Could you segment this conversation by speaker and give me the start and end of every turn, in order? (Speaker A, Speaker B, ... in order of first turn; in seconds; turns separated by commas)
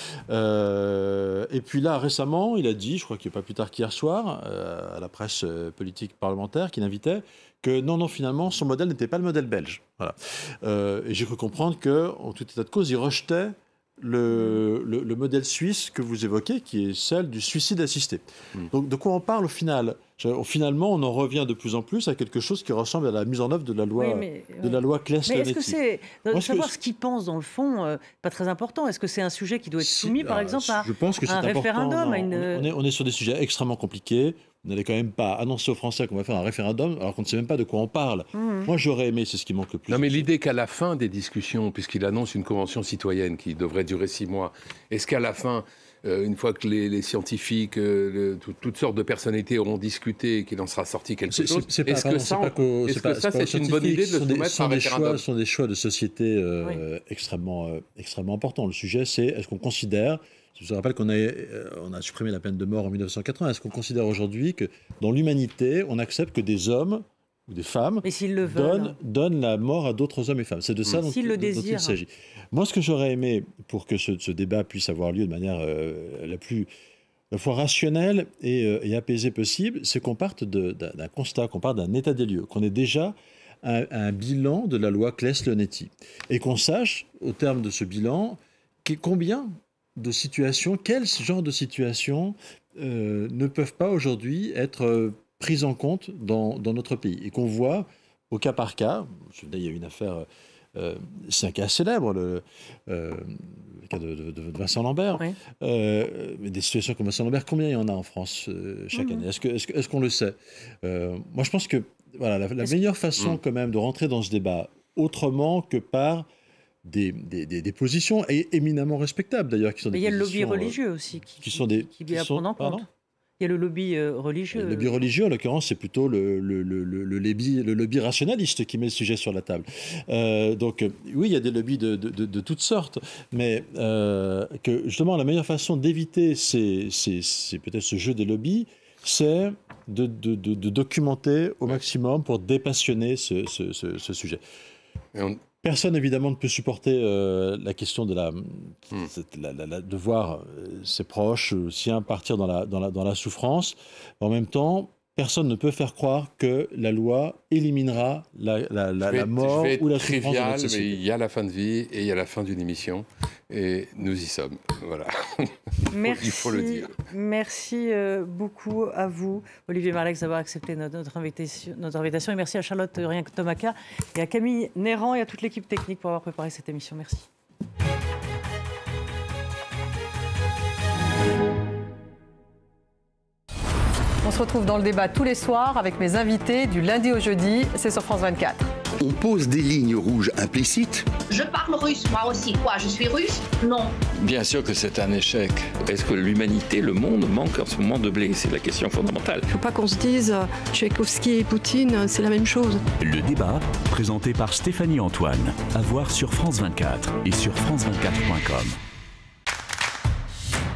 Speaker A: 0.3-25.8, Speaker B: 14.3-14.6, Speaker B: 24.0-32.7, Speaker A: 26.3-26.8, Speaker A: 29.8-40.3, Speaker B: 38.3-38.7, Speaker C: 39.9-55.2, Speaker A: 51.3-76.7, Speaker B: 68.0-69.0, Speaker B: 71.0-72.0, Speaker A: 77.3-116.3, Speaker B: 108.9-109.2, Speaker A: 116.9-120.8, Speaker B: 119.9-122.9, Speaker A: 121.4-122.9, Speaker B: 123.4-125.0, Speaker A: 124.5-144.4, Speaker A: 145.6-161.0, Speaker C: 159.1-166.9, Speaker B: 165.9-177.3, Speaker D: 184.2-188.7, Speaker E: 189.0-191.1, Speaker F: 191.3-193.9, Speaker G: 194.1-199.5, Speaker H: 199.5-202.8, Speaker I: 203.0-208.7